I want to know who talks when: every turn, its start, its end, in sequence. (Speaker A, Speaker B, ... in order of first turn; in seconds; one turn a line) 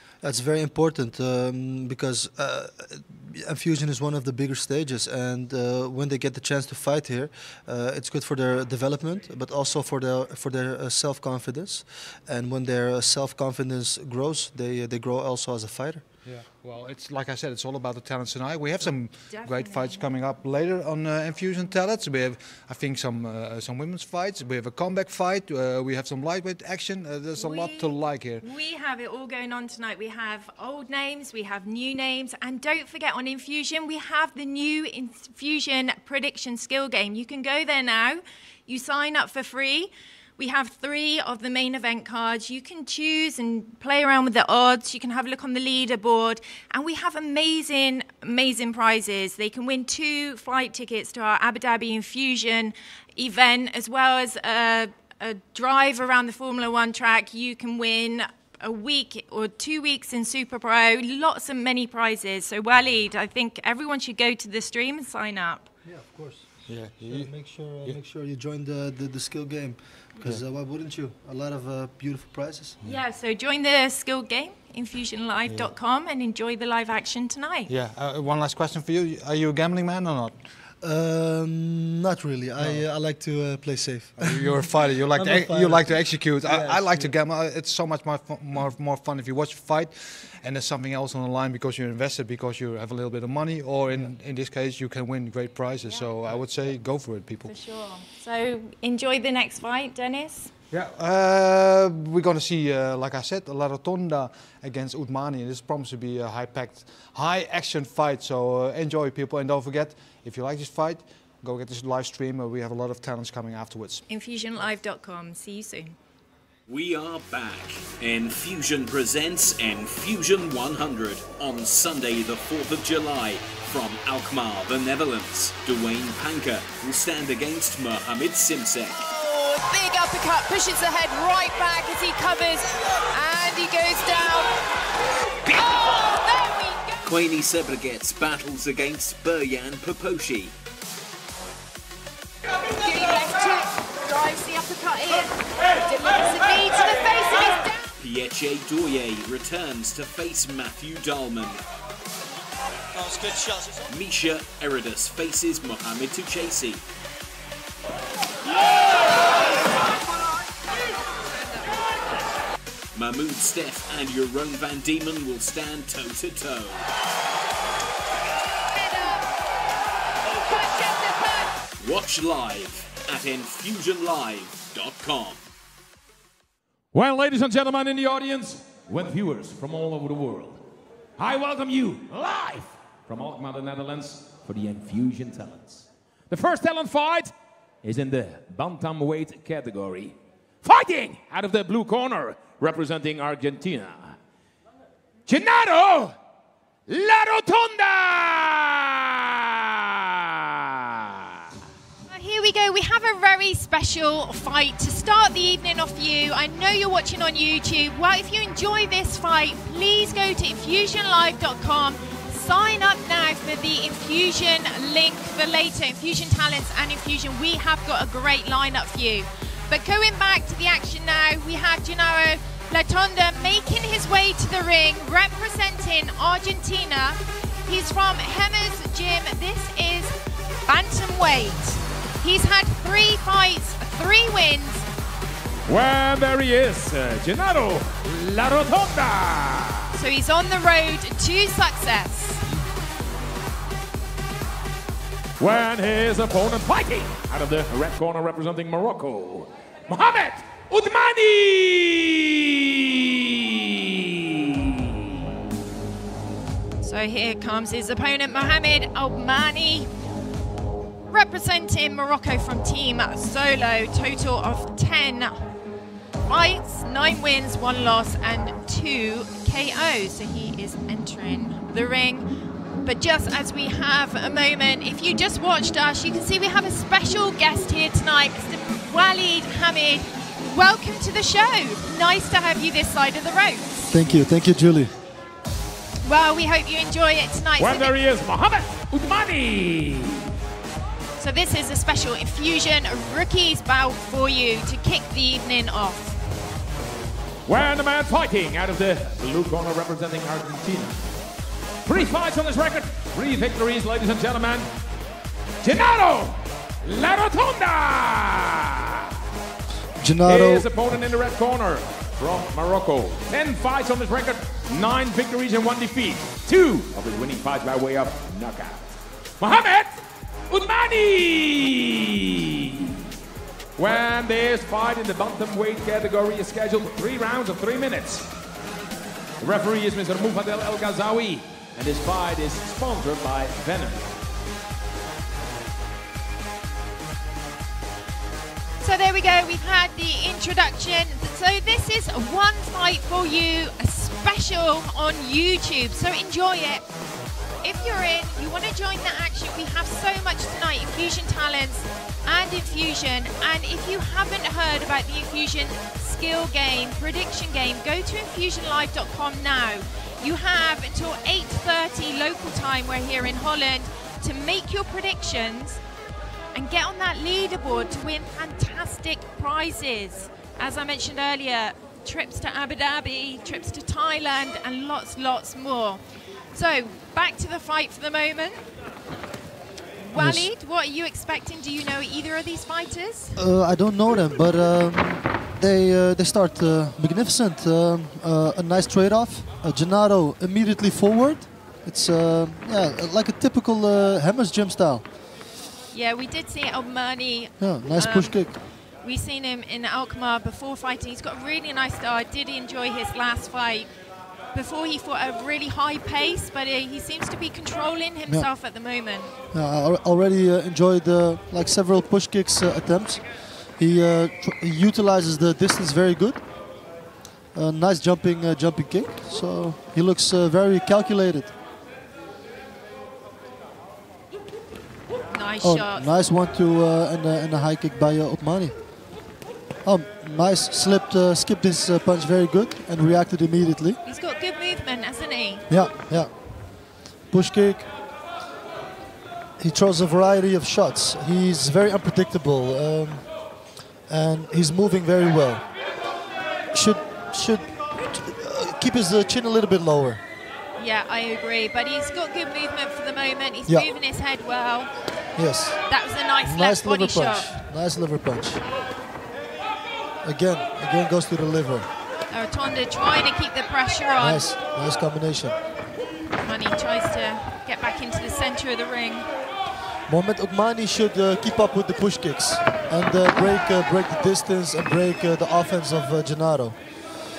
Speaker A: 0.2-16.0
Speaker B: 16.2-28.4
Speaker C: 19.3-20.0
Speaker C: 27.4-65.7
Speaker A: 65.8-72.8
Speaker B: 66.7-67.3
Speaker C: 72.8-77.7
Speaker B: 77.7-80.3
Speaker A: 80.8-87.1
Speaker B: 82.6-82.8
Speaker B: 84.2-97.5
Speaker C: 97.4-100.5
Speaker B: 100.7-114.0
Speaker C: 114.1-116.0
Speaker D: 116.7-129.1
Speaker C: 129.3-134.5
Speaker C: 135.5-137.1
Speaker D: 137.0-140.5
Speaker C: 142.6-147.9
Speaker D: 148.0-151.6
Speaker D: 153.0-156.8
Speaker D: 162.9-166.9
Speaker C: 168.7-169.2
Speaker C: 170.3-171.5
Speaker D: 171.8-175.4
Speaker E: 176.9-180.6
Speaker E: 181.2-194.2
Speaker E: 195.3-196.1
Speaker E: 196.9-201.3
Speaker C: 202.1-230.1
Speaker C: 230.7-234.9
Speaker E: 235.7-239.9
Speaker C: 239.9-242.5
Speaker E: 245.4-254.8
Speaker C: 256.8-259.9
Speaker C: 261.1-265.5
Speaker C: 266.2-272.3
Speaker C: 272.8-283.9
Speaker A: 283.9-284.9
Speaker C: 286.0-287.9
Speaker E: 287.6-290.3
Speaker C: 291.2-296.4
Speaker E: 297.4-301.1
Speaker E: 301.9-304.7
Speaker E: 305.6-309.1
Speaker A: 310.0-310.7
Speaker E: 310.2-322.9
Speaker E: 323.8-328.3
Speaker E: 329.4-334.1
Speaker C: 338.8-346.8
Speaker C: 347.6-365.8
Speaker C: 366.5-378.6
Speaker C: 380.0-383.4
Speaker A: 380.1-380.5
Speaker A: 383.4-395.0
Speaker C: 395.9-403.9
Speaker A: 397.6-398.5
Speaker C: 404.5-409.3
Speaker A: 409.5-416.4
Speaker A: 417.5-421.5
Speaker C: 425.3-426.1
Speaker A: 425.6-428.7
Speaker A: 429.8-434.0
Speaker C: 434.0-435.6
Speaker A: 435.7-436.3
Speaker A: 437.3-437.9
Speaker A: 439.6-443.3
Speaker A: 444.0-445.7
Speaker A: 446.7-450.2
Speaker C: 450.8-454.9
Speaker A: 455.3-455.8
Speaker C: 455.9-457.6
Speaker A: 456.4-458.6
Speaker A: 460.2-461.9
Speaker C: 462.3-464.5
Speaker A: 464.2-465.6
Speaker C: 466.4-469.3
Speaker A: 470.1-476.8